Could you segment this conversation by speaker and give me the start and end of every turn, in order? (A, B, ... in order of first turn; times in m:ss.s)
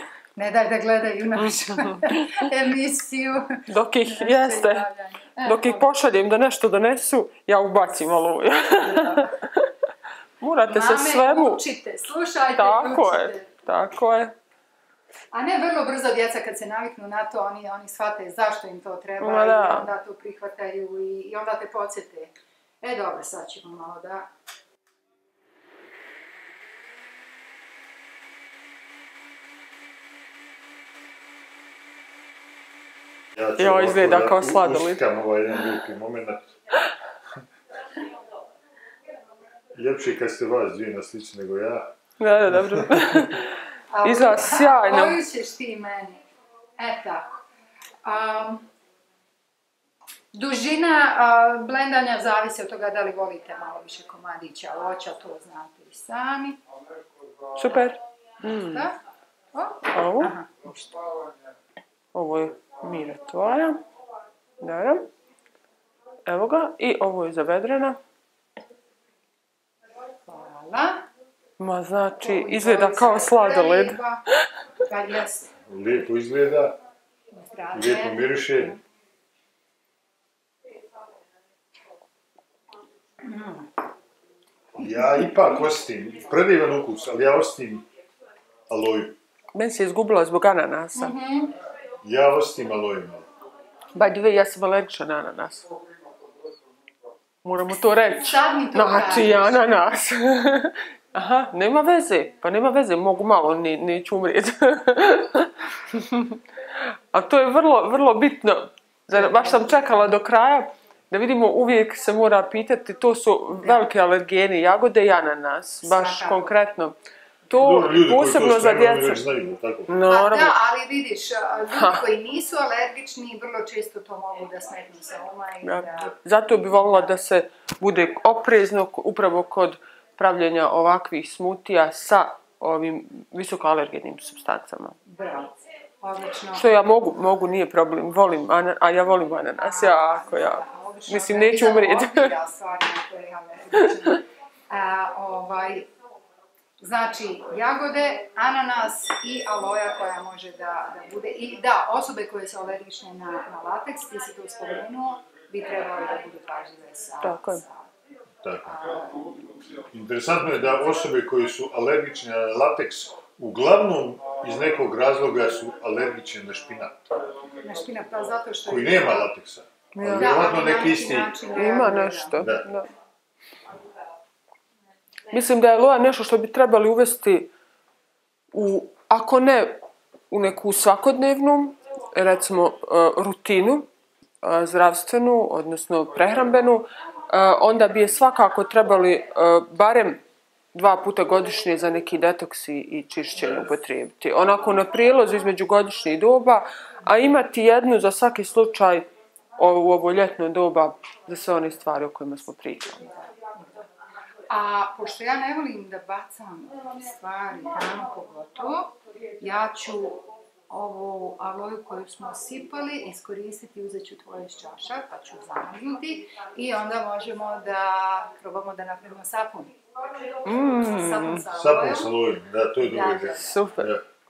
0:00.4-0:05.9 A
0:01.5-0:02.5 B
0:03.7-0:04.9 B
0:05.4-0:09.7 B
0:08.8-0:09.3 A
0:10.4-0:11.6 B
0:10.6-0:13.5 A
0:12.5-0:14.3 B
0:15.3-0:24.3 A
0:19.2-0:19.9 B
0:33.3-0:36.5 C
0:33.6-0:35.0 B
0:39.7-0:41.9 C
0:42.2-0:43.5 B
0:42.5-0:42.9 C
0:43.9-0:46.2 A
0:44.0-0:45.2 B
0:46.8-0:47.3 A
0:48.0-0:48.7 A
0:50.3-0:56.6 A
0:57.6-0:58.9 B
0:58.4-0:59.0 A
0:59.5-1:00.9 A
0:59.9-1:00.3 B
1:02.1-1:03.8 B
1:04.6-1:05.1 B
1:06.2-1:08.0 B
1:10.3-1:11.1 A
1:11.6-1:14.0 B
1:12.2-1:14.2 A
1:14.9-1:15.5 A
1:15.7-1:16.8 C
1:17.3-1:18.7 A
1:17.7-1:18.8 C
1:23.2-1:23.7 A
1:24.8-1:27.8 C
1:28.7-1:29.2 C
1:29.5-1:31.1 B
1:31.0-1:31.5 A
1:32.0-1:33.3 C
1:33.9-1:35.7 B
1:37.4-1:46.4 B
1:38.1-1:39.6 A
1:47.1-1:57.0 B
1:49.1-1:50.1 A
1:53.6-1:53.9 A
1:55.8-1:56.6 A
1:57.5-1:59.2 B
1:57.5-1:59.9 C
1:59.9-2:00.6 B
2:00.1-2:07.1 A
2:01.7-2:02.0 B
2:05.6-2:15.0 B
2:15.1-2:16.6 A
2:16.5-2:22.3 B
2:19.6-2:25.9 A
2:23.8-2:24.2 B
2:26.8-2:37.8 A
2:37.2-2:37.6 B
2:38.4-2:38.8 C
2:38.6-2:39.4 A
2:39.9-2:47.0 C
2:47.6-2:49.3 A
2:48.6-2:51.4 C
2:49.9-2:50.4 B
2:50.1-2:52.4 A
2:51.5-2:52.9 B
2:52.4-2:52.6 C
2:55.3-2:57.5 B
2:58.5-3:03.9 B
3:04.4-3:10.2 B
3:10.7-3:19.1 B
3:19.6-3:23.1 B
3:23.5-3:23.8 A
3:24.5-3:39.7 A
3:40.4-3:41.5 B
3:40.4-3:42.1 A
3:41.5-3:44.0 C
3:42.8-3:43.6 A
3:43.3-3:43.9 B